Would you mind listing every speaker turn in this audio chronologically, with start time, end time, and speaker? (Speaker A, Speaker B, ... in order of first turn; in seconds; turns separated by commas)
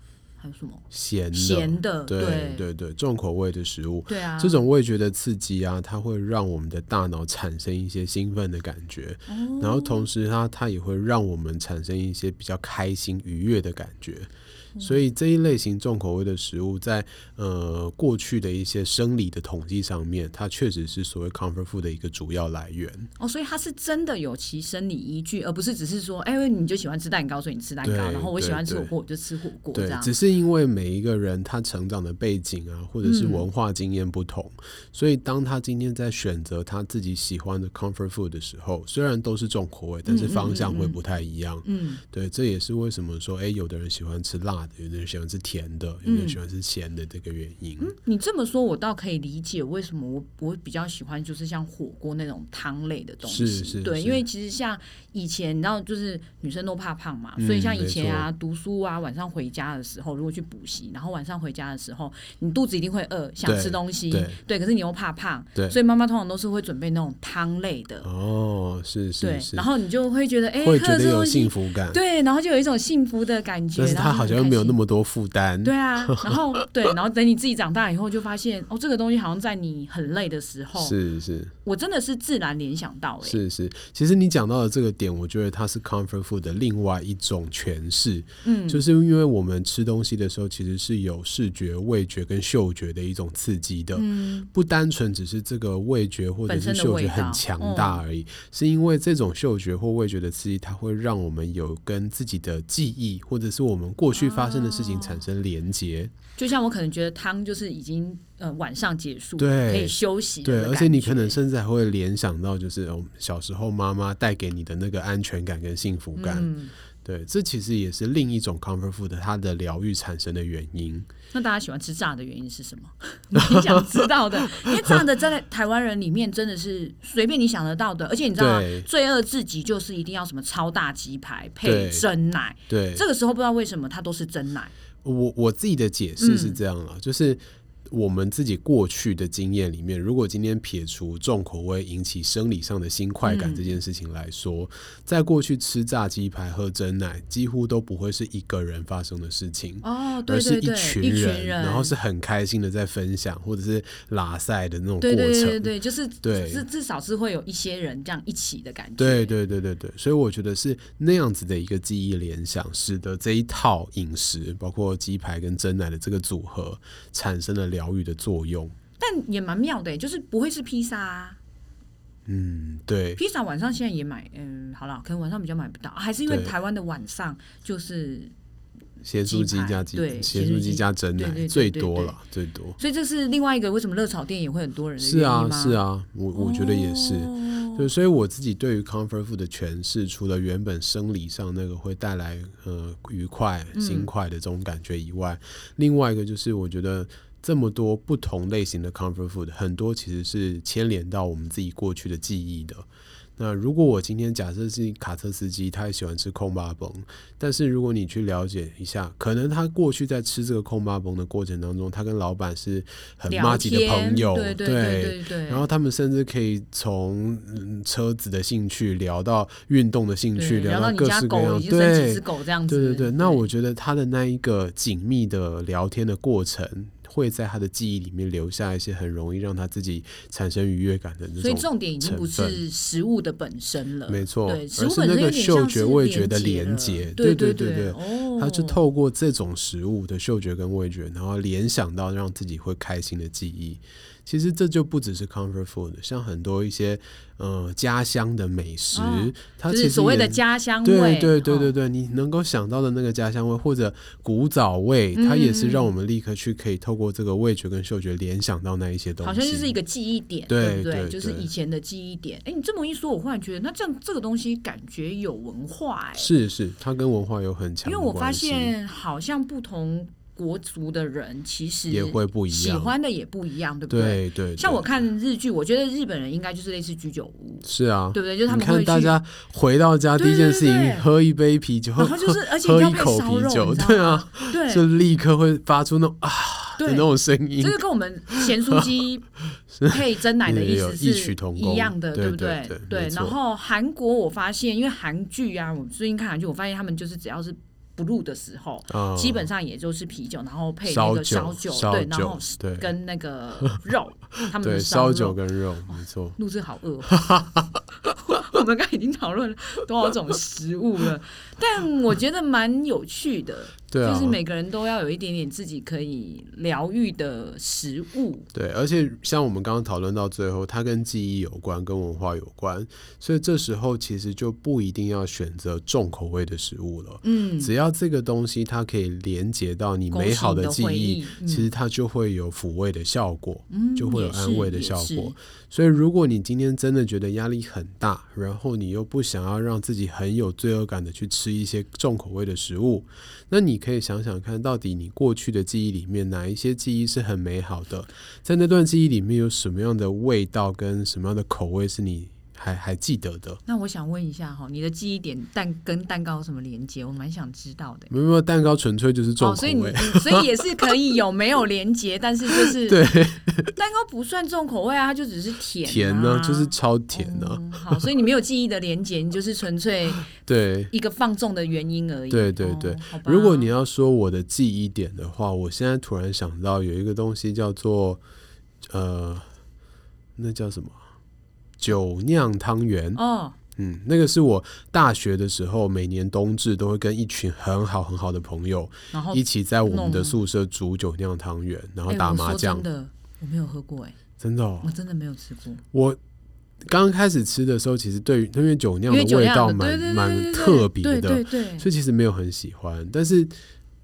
Speaker A: 0.4-2.6, Speaker B: 0.9-23.1, Speaker A: 4.1-4.6, Speaker A: 9.3-10.1, Speaker A: 23.2-30.1, Speaker B: 27.8-28.9, Speaker B: 29.7-47.9, Speaker A: 33.0-33.5, Speaker A: 40.0-41.0, Speaker A: 41.6-42.0, Speaker A: 46.0-46.4, Speaker A: 47.8-68.1, Speaker B: 53.2-54.2, Speaker B: 57.4-58.3, Speaker B: 63.4-64.4, Speaker B: 68.0-69.7, Speaker A: 69.2-74.8, Speaker B: 70.6-72.0, Speaker B: 73.8-76.6, Speaker A: 75.6-81.0, Speaker B: 80.8-81.5, Speaker A: 81.6-83.4, Speaker B: 83.2-106.1, Speaker A: 88.4-88.8, Speaker A: 93.9-94.5, Speaker A: 96.5-98.0, Speaker A: 104.1-105.2, Speaker A: 106.3-111.4, Speaker B: 109.4-116.5, Speaker A: 116.2-116.7, Speaker B: 117.0-121.1, Speaker A: 121.3-134.7, Speaker B: 123.3-125.0, Speaker B: 128.4-128.9, Speaker B: 131.6-132.1, Speaker B: 132.7-133.0, Speaker B: 135.0-156.7, Speaker A: 136.2-136.6, Speaker A: 143.2-143.8, Speaker A: 149.8-151.9, Speaker A: 155.0-159.3, Speaker B: 159.0-168.7, Speaker A: 169.0-171.4, Speaker B: 172.2-173.2, Speaker A: 173.2-178.3, Speaker B: 176.2-176.5, Speaker B: 179.0-182.8, Speaker A: 179.2-182.2, Speaker A: 182.8-185.8, Speaker B: 185.0-202.8, Speaker A: 186.3-187.9, Speaker A: 193.7-194.1, Speaker B: 203.4-232.6, Speaker A: 213.3-215.7, Speaker A: 220.3-223.5, Speaker A: 231.4-238.8, Speaker B: 234.1-259.7, Speaker A: 248.9-251.8, Speaker A: 255.1-255.9, Speaker A: 259.2-266.3, Speaker B: 260.5-261.5, Speaker B: 266.2-268.7, Speaker A: 267.8-279.1, Speaker B: 271.9-272.9, Speaker B: 273.9-275.0, Speaker B: 277.6-287.8, Speaker A: 280.2-281.1, Speaker A: 282.0-284.9, Speaker A: 286.8-289.3, Speaker B: 288.3-288.9, Speaker B: 289.7-293.4, Speaker A: 289.9-307.4, Speaker B: 298.9-299.5, Speaker B: 300.8-302.9, Speaker B: 304.5-306.4, Speaker B: 307.1-307.7, Speaker A: 308.0-318.5, Speaker B: 313.9-314.4, Speaker B: 318.5-353.6, Speaker A: 327.2-327.7, Speaker A: 330.1-331.7, Speaker A: 333.7-335.4, Speaker A: 353.6-358.1, Speaker B: 358.1-360.9, Speaker A: 359.4-363.1, Speaker B: 362.5-363.8, Speaker A: 363.7-370.3, Speaker B: 365.8-368.1, Speaker B: 370.2-370.9, Speaker A: 370.9-373.7, Speaker B: 372.3-378.2, Speaker B: 378.9-379.5, Speaker B: 380.4-381.0, Speaker B: 381.8-383.2, Speaker A: 383.1-383.6, Speaker B: 383.8-392.8, Speaker A: 389.1-390.4, Speaker A: 392.1-394.2, Speaker B: 394.4-394.9, Speaker A: 394.8-395.8, Speaker B: 395.9-396.2, Speaker B: 396.9-403.5, Speaker A: 399.1-401.9